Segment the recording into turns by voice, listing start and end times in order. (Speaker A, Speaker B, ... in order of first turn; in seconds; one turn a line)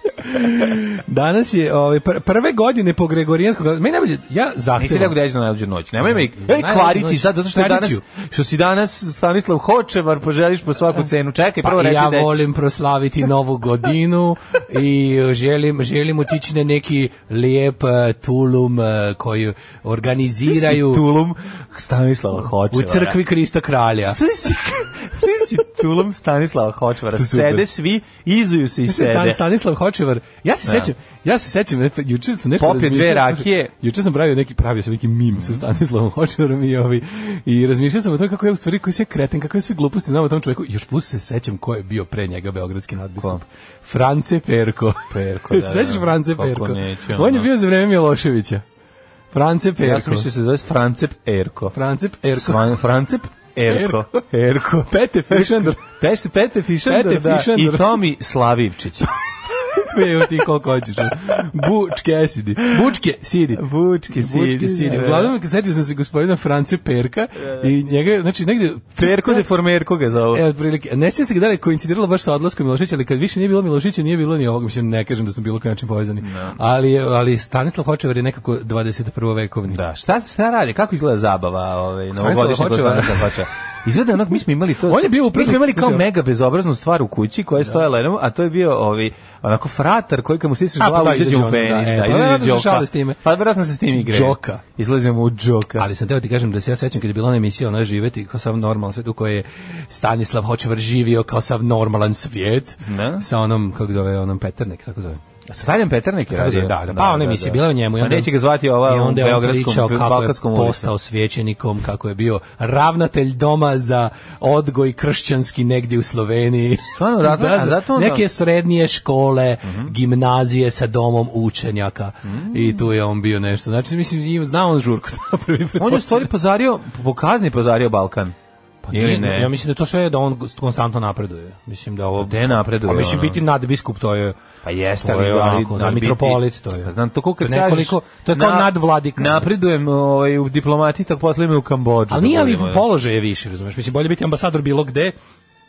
Speaker A: 0.2-5.2
Speaker B: 4.8-12.5
Speaker A: 6.2-8.0
Speaker A: 11.6-21.1
Speaker B: 20.4-23.2
Speaker A: 22.7-24.2
Speaker B: 24.1-29.4
Speaker A: 27.1-27.6
Speaker A: 28.9-48.6
Speaker B: 30.7-30.9
Speaker B: 32.6-33.7
Speaker B: 43.2-43.4
Speaker B: 45.1-47.5
Speaker A: 49.3-50.3
Speaker B: 49.8-51.8
Speaker A: 51.7-52.6
Speaker B: 52.3-59.1
Speaker A: 53.7-54.2
Speaker A: 54.8-55.9
Speaker A: 56.9-58.0
Speaker A: 59.6-69.5
Speaker B: 63.6-65.3
Speaker B: 67.4-67.7
Speaker B: 69.0-70.4
Speaker A: 70.3-79.8
Speaker B: 76.2-76.6
Speaker B: 79.7-95.9
Speaker A: 82.1-83.4
Speaker A: 84.9-86.0
Speaker A: 90.8-93.2
Speaker A: 94.0-94.6
Speaker A: 95.8-105.2
Speaker B: 102.8-103.3
Speaker B: 105.5-110.9
Speaker A: 106.3-126.3
Speaker B: 116.8-118.3
Speaker B: 119.6-120.0
Speaker B: 122.2-122.9
Speaker B: 125.8-128.3
Speaker A: 128.8-134.3
Speaker B: 128.9-129.6
Speaker B: 132.2-133.4
Speaker B: 134.6-142.8
Speaker A: 135.0-139.5
Speaker A: 142.1-145.2